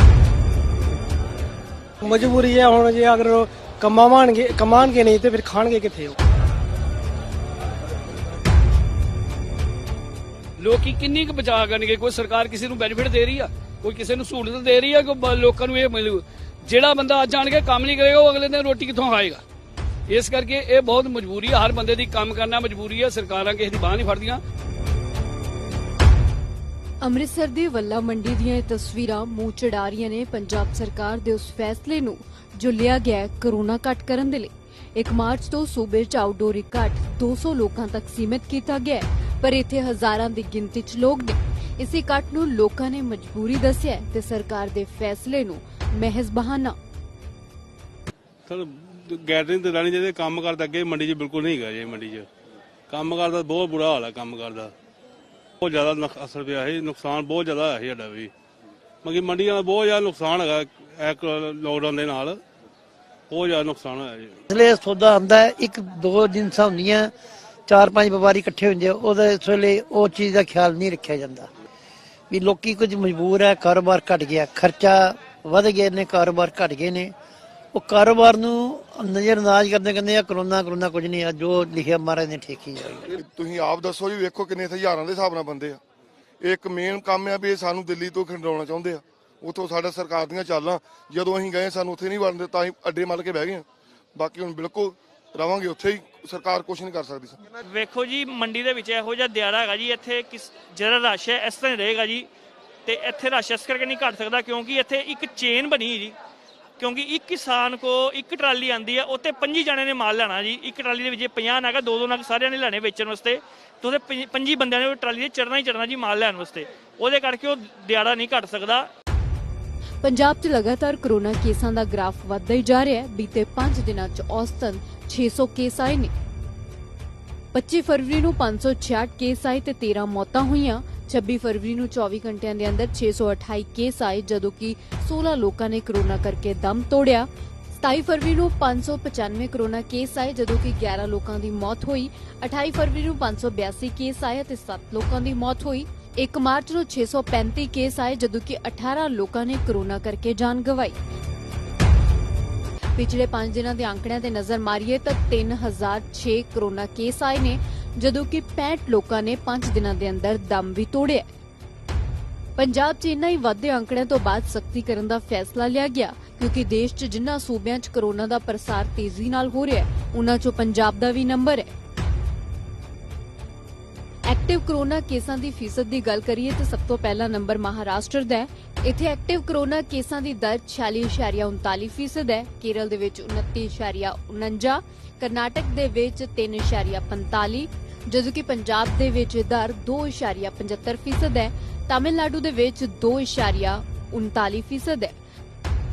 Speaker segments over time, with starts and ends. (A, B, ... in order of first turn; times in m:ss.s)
0:02.0-0:06.2 A
0:10.6-0:19.4 B
0:20.1-0:24.4 B
0:27.0-0:46.8 C
0:48.5-0:52.2 D
0:52.9-0:54.7 D
0:55.6-0:58.3 D
0:59.0-1:02.4 D
1:03.3-1:04.4 D
1:04.5-1:07.1 E
1:07.7-1:11.5 E
1:12.3-1:17.1 E
1:17.7-1:23.2 E
1:23.1-1:25.8 F
1:26.4-1:37.4 F
1:37.7-1:42.3 G
1:42.8-1:46.2 G
1:46.8-1:58.9 G
2:00.0-2:06.1 C
2:07.5-2:31.0 C
2:33.0-2:41.2 C
2:42.6-2:51.7 C
2:54.3-3:15.2 C